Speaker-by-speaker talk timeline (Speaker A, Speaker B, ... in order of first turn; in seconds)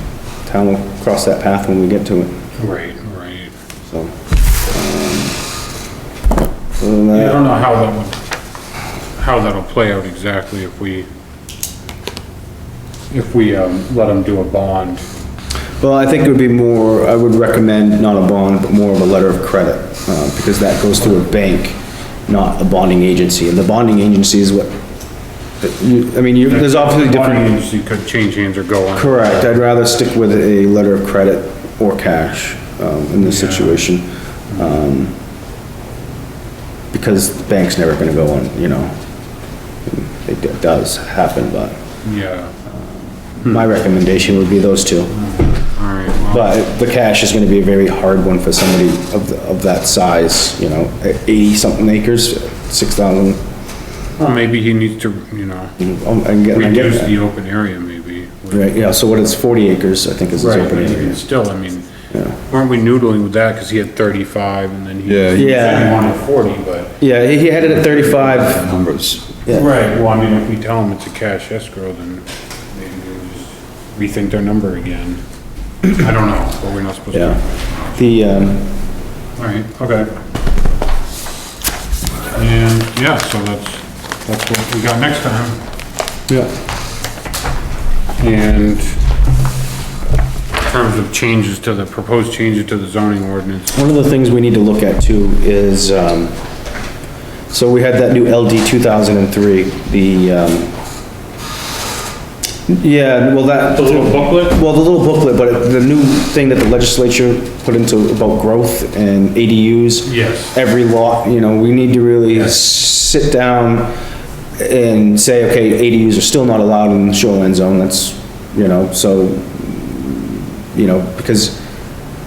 Speaker A: 0.5-2.4, 3.9-4.1, 4.7-5.4, 6.8-7.4, 15.8-24.8, 25.6-27.5, 28.9-35.2, 36.9-38.9, 39.9-41.8, 43.4-45.2, 46.3-53.4, 55.8-57.1, 58.5-61.2, 62.1-62.4, 65.4-66.0, 67.0-68.6, 77.1-77.4, 78.0-78.7, 86.3-86.5, 93.7-96.3, 97.5-100.7, 102.7-113.9, 114.6-121.6
Speaker B: 2.6-3.5, 7.1-8.2, 9.2-11.1, 13.1-15.1, 26.5-29.5, 33.2-33.9, 42.0-42.5, 45.1-46.5, 54.2-55.8, 56.5-58.7, 60.4-61.9, 62.4-67.0, 69.5-75.2, 75.8-77.4, 79.4-80.1, 82.3-85.6, 88.2-89.0, 90.6-93.8, 103.7-104.6, 110.1-110.5
Speaker C: 65.1-65.6, 67.6-69.4